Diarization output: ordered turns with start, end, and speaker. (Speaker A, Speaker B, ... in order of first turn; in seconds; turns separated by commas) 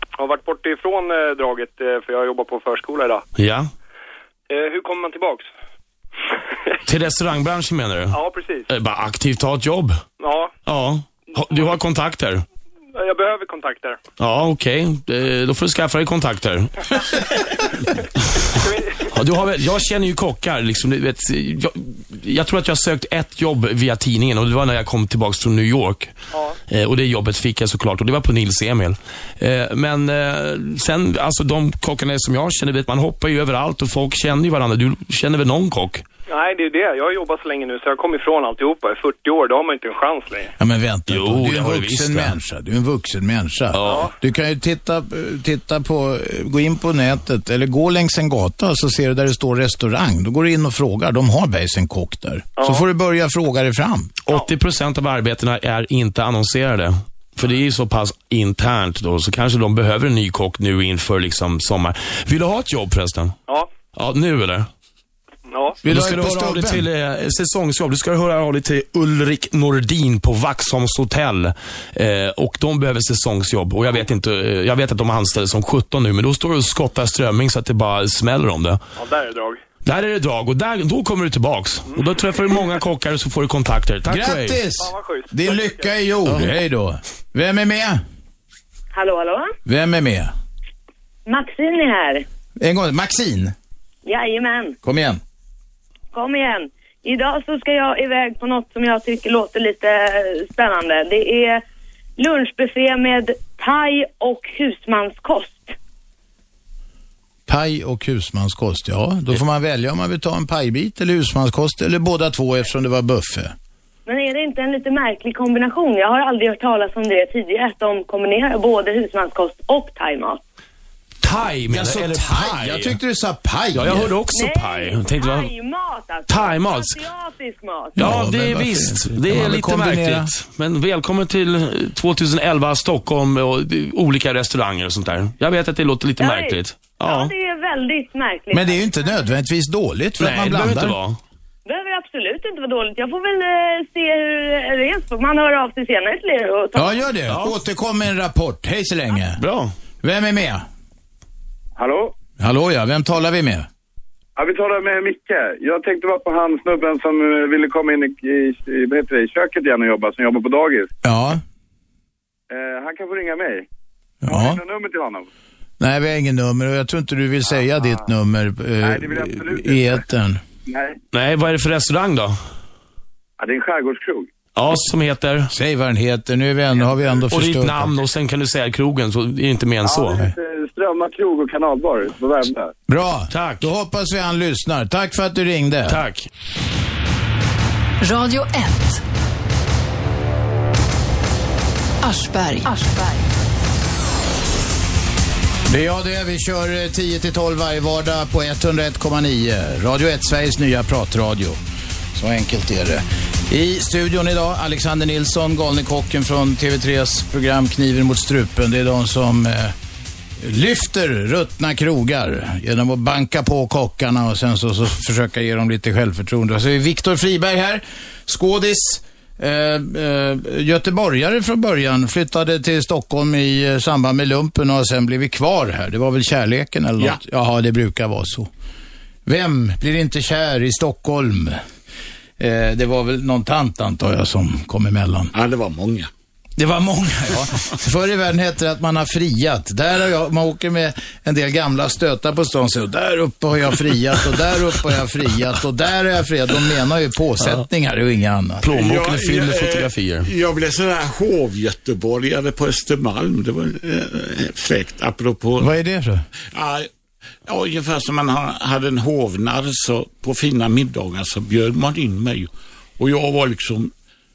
Speaker A: 0.2-3.2, Speaker B: 3.4-3.7, Speaker A: 4.5-5.5, Speaker B: 6.9-10.0, Speaker A: 8.1-8.7, Speaker A: 10.2-10.5, Speaker B: 10.7-12.4, Speaker A: 11.4-11.8, Speaker A: 12.9-14.0, Speaker B: 14.2-17.4, Speaker A: 18.6-19.0, Speaker B: 19.0-26.1, Speaker B: 26.7-36.0, Speaker A: 36.3-40.5, Speaker C: 40.6-54.1, Speaker B: 41.1-42.3, Speaker B: 43.7-44.1, Speaker A: 43.8-44.1, Speaker A: 52.6-52.9, Speaker B: 54.3-63.4, Speaker B: 63.9-64.7, Speaker A: 65.5-65.8, Speaker B: 65.8-78.8, Speaker C: 65.8-66.9, Speaker A: 79.0-79.6, Speaker B: 79.8-84.6, Speaker C: 84.1-88.0, Speaker A: 84.8-86.0, Speaker D: 88.9-89.6, Speaker C: 89.7-90.3, Speaker D: 91.3-92.2, Speaker C: 92.6-93.5, Speaker D: 94.1-94.8, Speaker C: 94.8-95.2, Speaker D: 96.1-101.6, Speaker D: 102.2-105.8, Speaker C: 107.5-113.5, Speaker D: 114.1-120.4, Speaker B: 121.2-123.0, Speaker C: 121.7-124.2, Speaker B: 123.7-125.5, Speaker D: 124.3-128.0, Speaker B: 126.3-127.0, Speaker B: 128.0-137.3, Speaker C: 128.0-130.3, Speaker D: 136.2-139.0, Speaker C: 138.5-141.0, Speaker B: 140.2-141.2, Speaker D: 141.7-147.0, Speaker C: 146.8-149.4, Speaker B: 147.3-147.5, Speaker B: 149.4-149.7, Speaker C: 150.0-150.7, Speaker E: 151.8-152.1, Speaker C: 152.4-153.7, Speaker E: 154.4-160.9, Speaker C: 161.0-161.4, Speaker E: 162.5-163.7, Speaker C: 164.2-164.6, Speaker E: 164.3-165.3, Speaker C: 165.8-170.4, Speaker E: 167.5-167.9, Speaker E: 168.8-170.0, Speaker E: 170.7-171.0, Speaker B: 171.1-172.4, Speaker E: 173.4-174.3, Speaker B: 174.6-175.5, Speaker C: 175.5-177.9, Speaker B: 177.3-180.3, Speaker E: 179.8-182.8, Speaker C: 182.9-186.0, Speaker B: 183.3-183.7, Speaker B: 185.9-186.3, Speaker F: 188.0-189.0, Speaker F: 192.0-193.4, Speaker C: 195.7-201.6, Speaker C: 202.1-209.8, Speaker C: 210.4-228.5, Speaker C: 229.3-231.6, Speaker C: 232.4-235.3, Speaker G: 235.3-236.1, Speaker C: 236.6-248.6, Speaker B: 248.6-250.3, Speaker G: 248.7-255.7, Speaker C: 255.6-256.3, Speaker G: 256.5-256.9, Speaker G: 257.5-263.9